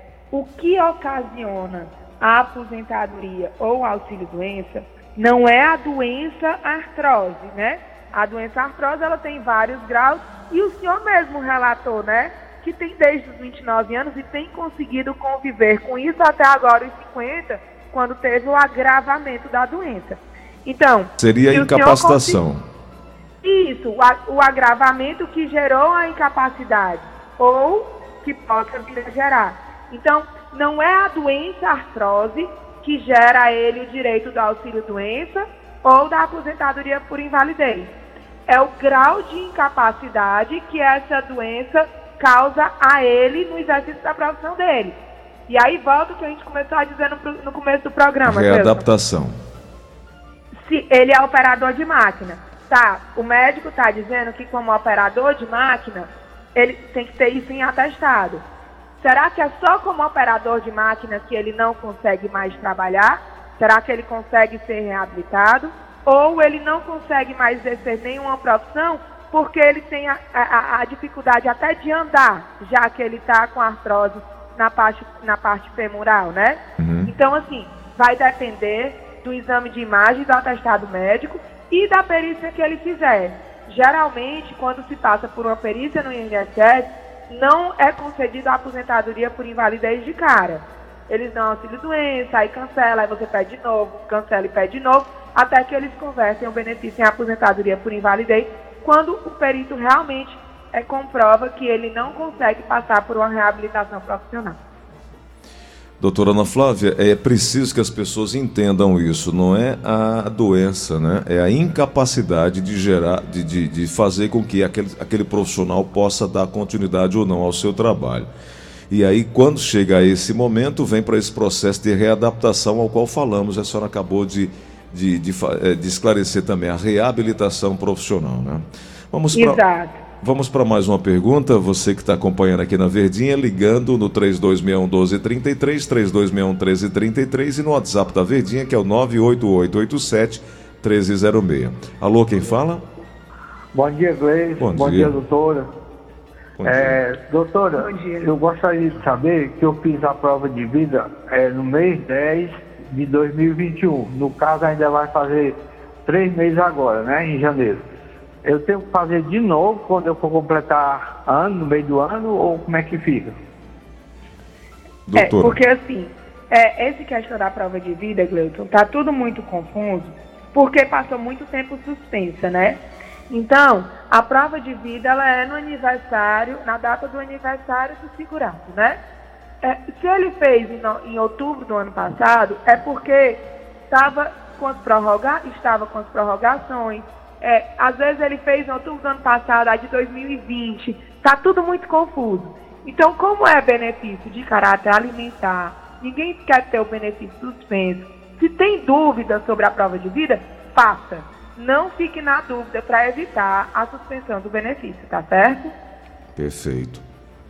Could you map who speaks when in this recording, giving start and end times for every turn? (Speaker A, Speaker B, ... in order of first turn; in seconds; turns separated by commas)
Speaker A: 0.3-22.4, Speaker B: 21.2-22.6, Speaker A: 23.4-37.9, Speaker A: 38.5-45.0, Speaker A: 45.5-48.8, Speaker B: 48.2-49.3, Speaker A: 50.6-58.4, Speaker A: 59.0-104.6, Speaker B: 76.8-77.1, Speaker B: 106.0-118.3, Speaker B: 118.9-129.6, Speaker A: 129.3-130.0, Speaker B: 130.2-142.8, Speaker C: 143.7-145.7, Speaker B: 144.6-145.2, Speaker B: 146.6-147.0, Speaker C: 146.6-157.8, Speaker A: 147.8-148.2, Speaker C: 158.4-163.3, Speaker B: 165.1-165.6, Speaker A: 165.1-179.0, Speaker A: 179.6-205.7, Speaker B: 206.3-207.0